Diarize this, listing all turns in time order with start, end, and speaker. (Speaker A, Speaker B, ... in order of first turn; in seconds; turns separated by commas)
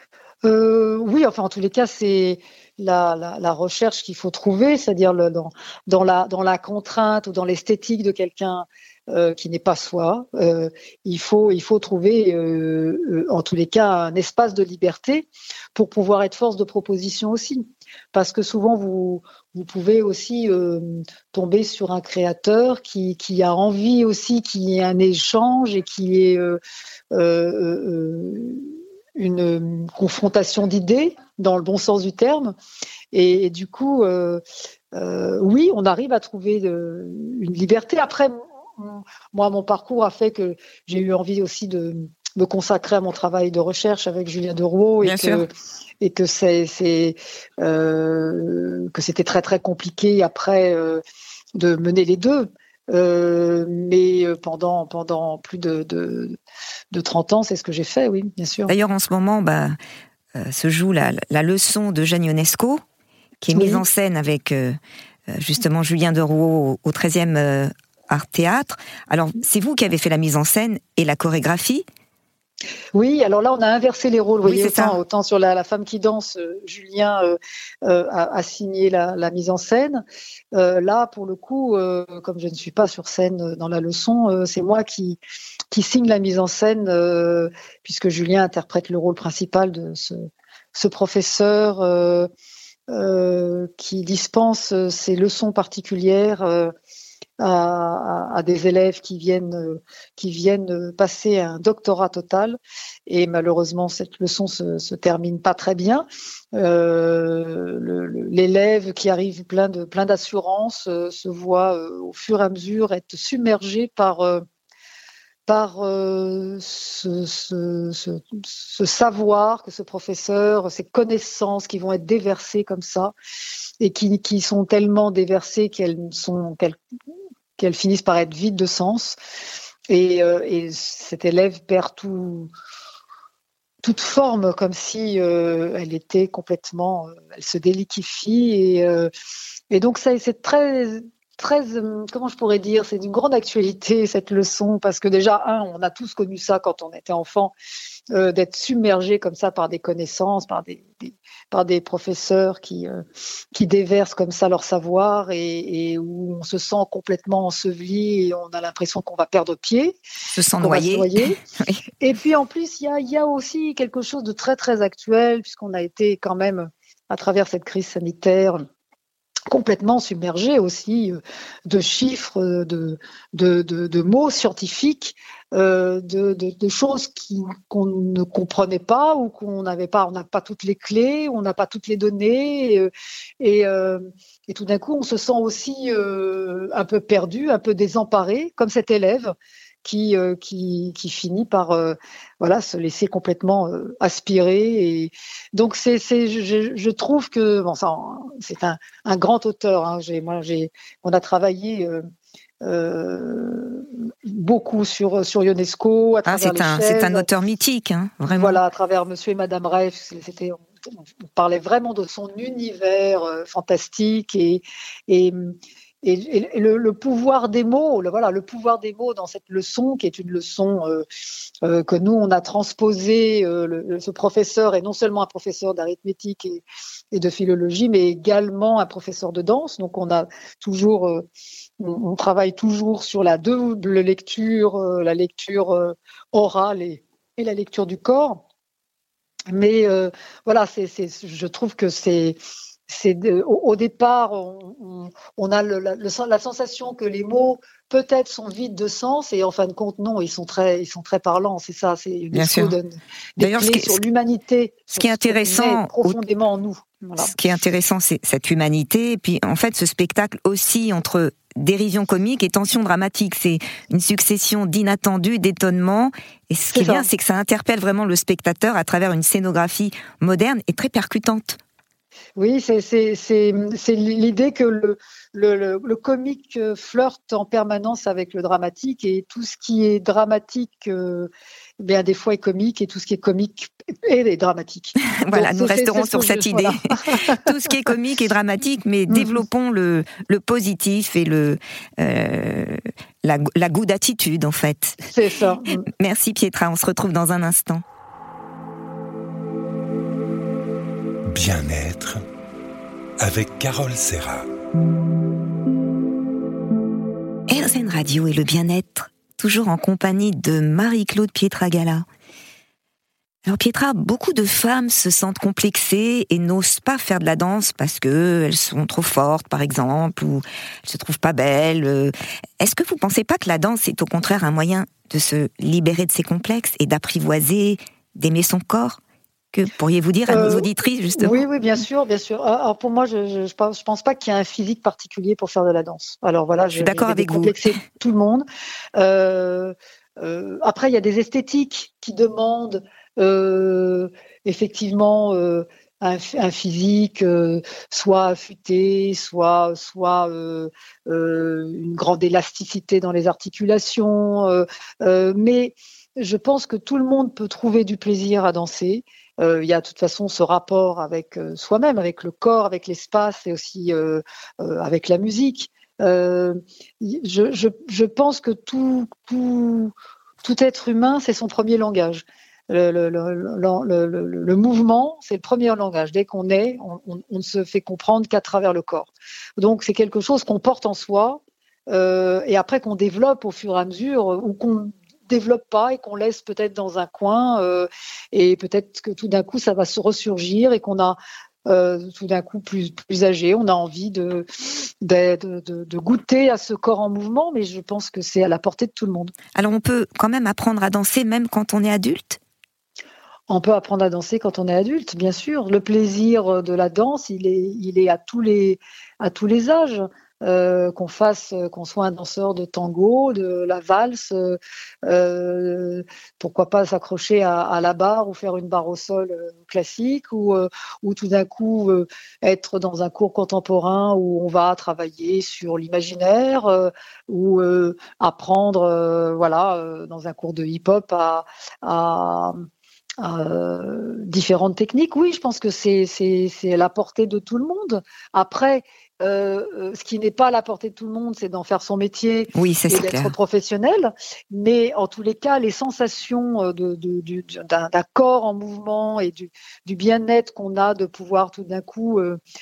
Speaker A: 0.4-26.6, Speaker A: 27.1-32.5, Speaker A: 33.1-34.4, Speaker A: 34.9-45.5, Speaker B: 45.0-45.5, Speaker A: 46.0-51.0, Speaker A: 51.5-56.4, Speaker A: 56.9-58.7, Speaker B: 58.7-59.8, Speaker B: 60.4-62.8, Speaker B: 63.4-71.8, Speaker A: 63.5-63.8, Speaker A: 72.9-80.0, Speaker B: 74.4-75.0, Speaker A: 80.5-85.2, Speaker A: 85.7-92.3, Speaker A: 92.9-96.7, Speaker A: 97.4-114.4, Speaker A: 115.5-123.1, Speaker A: 123.8-126.8, Speaker A: 127.6-129.2, Speaker A: 129.9-132.5, Speaker A: 133.8-139.1, Speaker A: 139.7-147.5, Speaker A: 148.1-160.0, Speaker B: 160.3-161.8, Speaker A: 160.6-161.4, Speaker A: 162.0-168.6, Speaker A: 169.5-202.1, Speaker A: 202.6-207.3, Speaker B: 206.3-208.6, Speaker A: 208.2-221.1, Speaker A: 221.6-231.3, Speaker A: 231.8-238.4, Speaker A: 239.5-257.4, Speaker B: 252.3-252.8, Speaker B: 253.4-254.0, Speaker B: 254.9-256.1, Speaker B: 257.2-271.6, Speaker A: 266.7-267.1, Speaker A: 272.4-287.5, Speaker B: 285.2-295.0, Speaker A: 289.1-289.4, Speaker A: 295.1-295.9, Speaker B: 295.9-297.8, Speaker C: 301.3-302.2, Speaker C: 303.2-304.5, Speaker B: 307.5-312.1, Speaker B: 313.4-329.0, Speaker B: 329.5-331.4, Speaker A: 330.3-338.4, Speaker B: 336.7-337.6, Speaker A: 339.0-399.3, Speaker B: 399.6-402.4, Speaker A: 403.5-432.6, Speaker A: 433.2-452.4, Speaker B: 442.5-443.3